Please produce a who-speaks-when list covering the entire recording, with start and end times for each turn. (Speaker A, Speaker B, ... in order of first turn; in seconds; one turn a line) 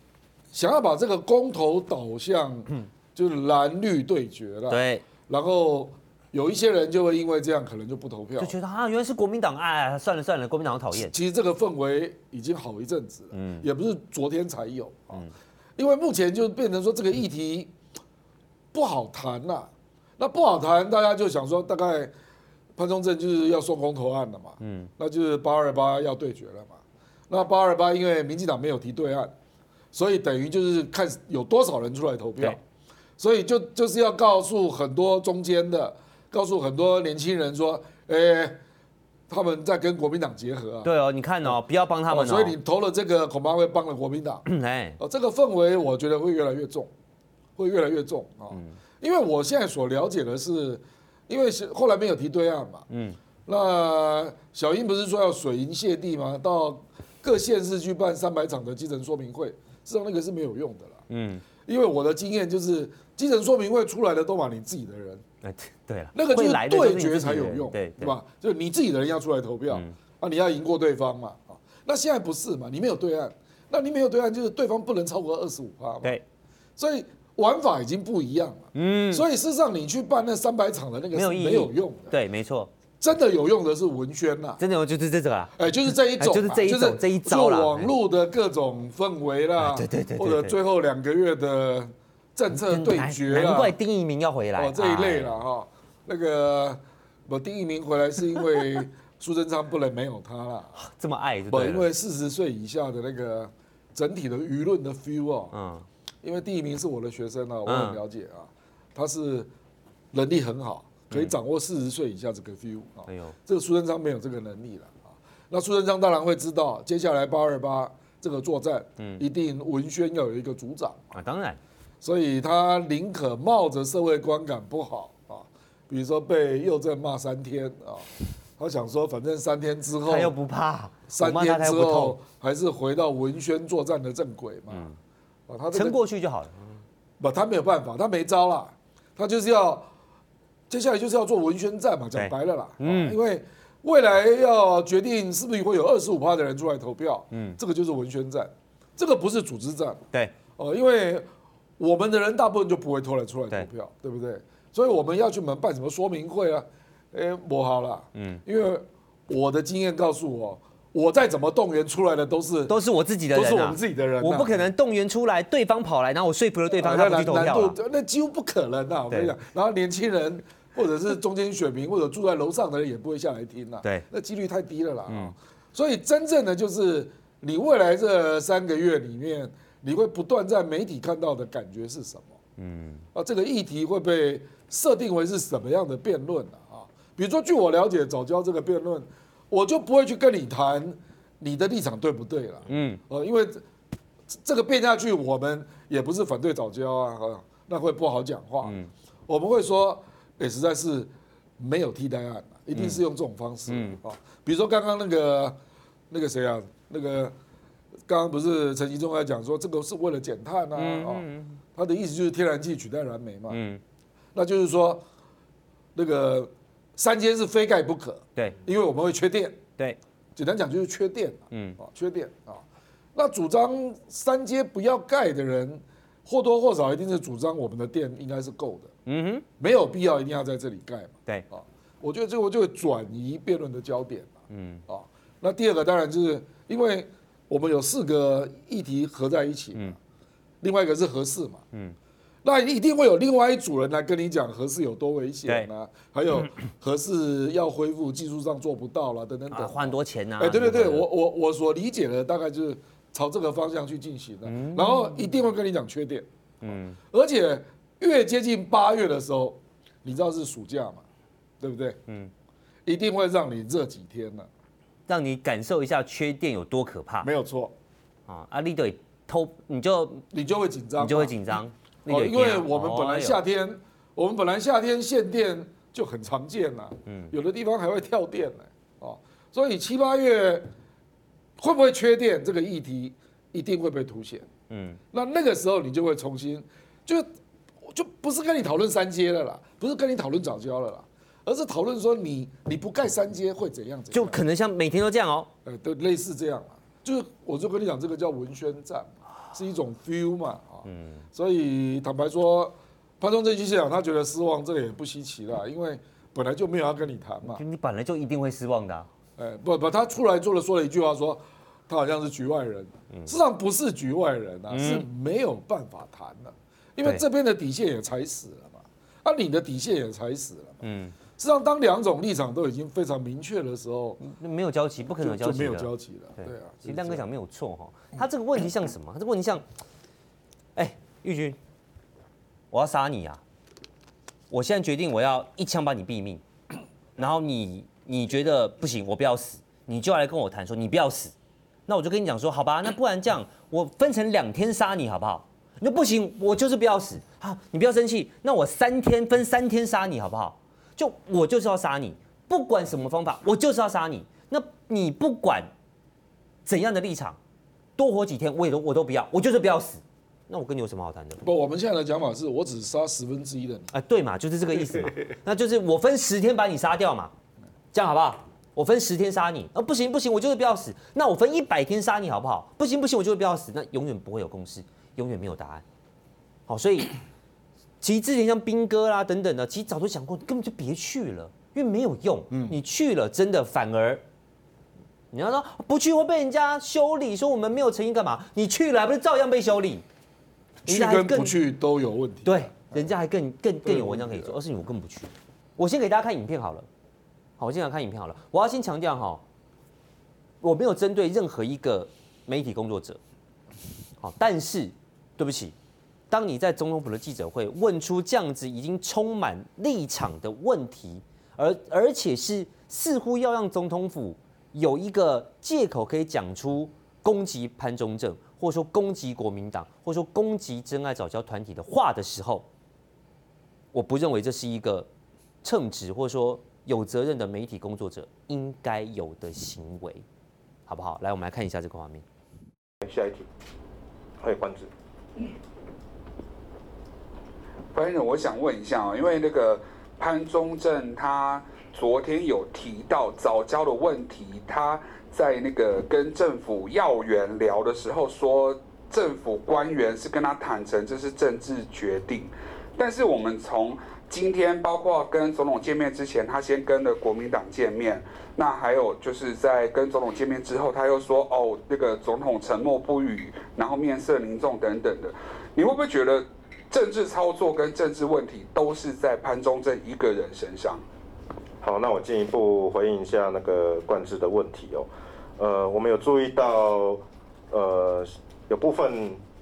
Speaker A: 0.5-8.5
Speaker B: 4.7-5.0
Speaker B: 8.4-11.1
Speaker A: 10.9-15.2
Speaker B: 13.3-13.7
Speaker A: 15.8-17.7
Speaker A: 18.7-22.1
Speaker A: 22.8-29.3
Speaker B: 24.6-24.9
Speaker A: 29.9-32.6
Speaker A: 33.2-38.6
Speaker A: 39.3-40.9
Speaker B: 40.8-42.5
Speaker A: 42.1-44.4
Speaker B: 44.5-45.0
Speaker A: 45.0-46.9
Speaker A: 47.6-52.9
Speaker B: 48.5-48.8
Speaker B: 52.9-53.2
Speaker A: 53.5-61.0
Speaker B: 61.1-61.5
Speaker A: 61.6-65.2
Speaker B: 65.4-68.2
Speaker A: 66.2-76.2
Speaker B: 69.7-70.0
Speaker A: 76.8-82.2
Speaker B: 78.7-79.3
Speaker B: 81.1-82.7
Speaker A: 83.0-84.6
Speaker B: 84.6-87.9
Speaker A: 85.6-93.8
Speaker B: 89.6-90.6
Speaker B: 92.5-95.4
Speaker A: 94.6-100.8
Speaker B: 100.7-101.9
Speaker A: 101.5-105.5
Speaker B: 105.5-105.9
Speaker A: 106.2-109.5
Speaker B: 107.7-108.0
Speaker A: 110.1-121.1
Speaker B: 113.1-113.4
Speaker B: 119.0-119.2
Speaker B: 121.1-121.6
Speaker A: 122.0-130.3
Speaker B: 130.1-132.2
Speaker A: 131.1-134.9
Speaker B: 134.7-135.0
Speaker A: 135.5-136.0
Speaker B: 135.7-136.8
Speaker A: 137.2-139.9
Speaker A: 140.7-150.0
Speaker B: 142.2-143.2
Speaker B: 147.3-147.6
Speaker A: 150.6-151.3
Speaker A: 151.8-162.7
Speaker B: 158.2-158.4
Speaker B: 162.7-167.8
Speaker A: 163.3-164.6
Speaker A: 166.7-182.3
Speaker B: 182.6-183.0
Speaker A: 183.1-193.6
Speaker B: 192.7-193.0
Speaker A: 194.3-198.8
Speaker B: 198.6-198.9
Speaker A: 199.3-205.6
Speaker B: 202.7-203.0
Speaker B: 203.7-204.0
Speaker A: 206.1-207.3
Speaker A: 208.1-213.6
Speaker B: 210.8-211.6
Speaker B: 213.5-213.8
Speaker A: 214.3-215.0
Speaker A: 215.9-219.6
Speaker A: 220.4-222.6
Speaker B: 221.5-221.8
Speaker A: 223.2-228.9
Speaker B: 229.1-229.4
Speaker A: 229.6-234.4
Speaker B: 234.5-234.8
Speaker A: 234.9-240.0
Speaker A: 240.6-241.6
Speaker A: 242.4-261.0
Speaker B: 249.5-251.1
Speaker B: 254.5-255.2
Speaker B: 256.6-257.0
Speaker A: 261.6-262.0
Speaker A: 262.9-264.5
Speaker B: 265.1-267.3
Speaker A: 267.2-267.7
Speaker B: 268.3-270.2
Speaker A: 270.3-280.7
Speaker B: 271.0-273.4
Speaker B: 277.1-277.3
Speaker A: 281.6-284.5
Speaker B: 284.7-285.0
Speaker A: 285.1-287.3
Speaker A: 287.9-294.4
Speaker B: 294.1-295.5
Speaker A: 295.6-307.6
Speaker B: 300.8-301.2
Speaker B: 307.4-309.1
Speaker A: 309.4-320.8
Speaker B: 314.7-315.1
Speaker B: 320.8-321.1
Speaker A: 321.4-324.2
Speaker B: 324.2-329.7
Speaker A: 325.2-327.2
Speaker B: 330.8-331.6
Speaker B: 332.7-333.4
Speaker B: 334.5-336.4
Speaker B: 337.2-341.3
Speaker B: 341.9-355.7
Speaker B: 356.7-357.4
Speaker B: 358.0-361.4
Speaker A: 361.4-363.9
Speaker B: 363.9-367.3
Speaker B: 367.9-375.8
Speaker B: 376.7-377.2
Speaker B: 378.0-384.2
Speaker A: 382.5-382.8
Speaker B: 385.3-390.0
Speaker B: 390.9-391.6
Speaker A: 390.9-393.1
Speaker B: 392.4-396.9
Speaker A: 393.9-394.6
Speaker B: 397.6-399.4
Speaker B: 400.6-403.2
Speaker B: 404.2-405.8
Speaker B: 406.3-422.7
Speaker B: 423.9-425.1
Speaker B: 425.6-430.2
Speaker B: 430.9-432.2
Speaker C: 433.0-433.5
Speaker C: 434.4-434.9
Speaker D: 437.9-471.1
Speaker C: 471.8-479.4